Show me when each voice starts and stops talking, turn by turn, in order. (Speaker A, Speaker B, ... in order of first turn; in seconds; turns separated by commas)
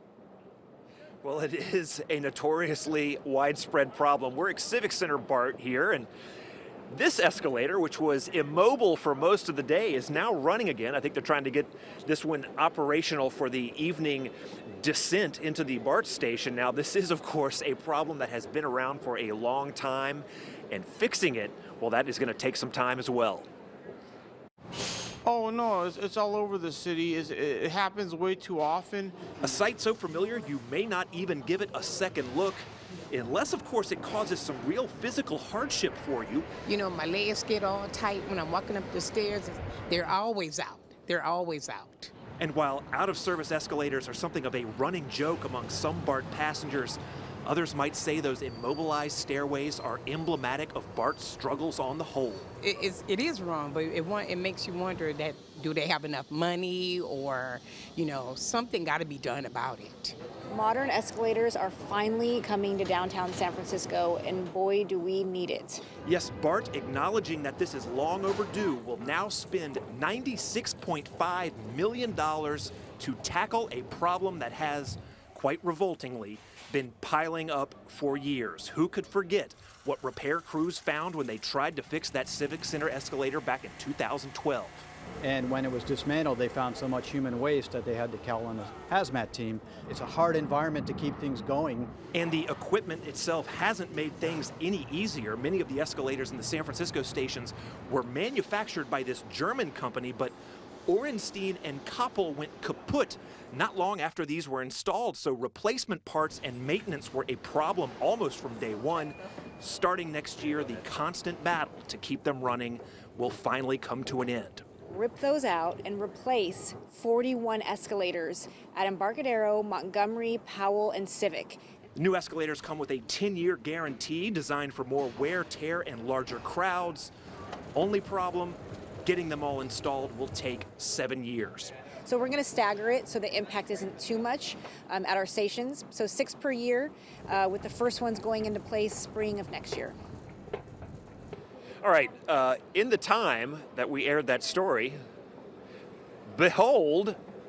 Speaker A: 1.2-6.1, Speaker A: 6.9-23.5, Speaker B: 25.2-29.3, Speaker A: 29.4-36.5, Speaker C: 36.6-42.1, Speaker A: 42.4-52.5, Speaker C: 52.6-60.1, Speaker D: 60.5-65.8, Speaker A: 66.0-84.9, Speaker E: 85.2-91.9, Speaker A: 92.1-100.3, Speaker A: 100.9-114.6, Speaker D: 114.9-121.6, Speaker A: 122.0-127.1, Speaker A: 127.7-131.7, Speaker D: 132.1-139.9, Speaker A: 141.8-145.0, Speaker A: 146.3-147.2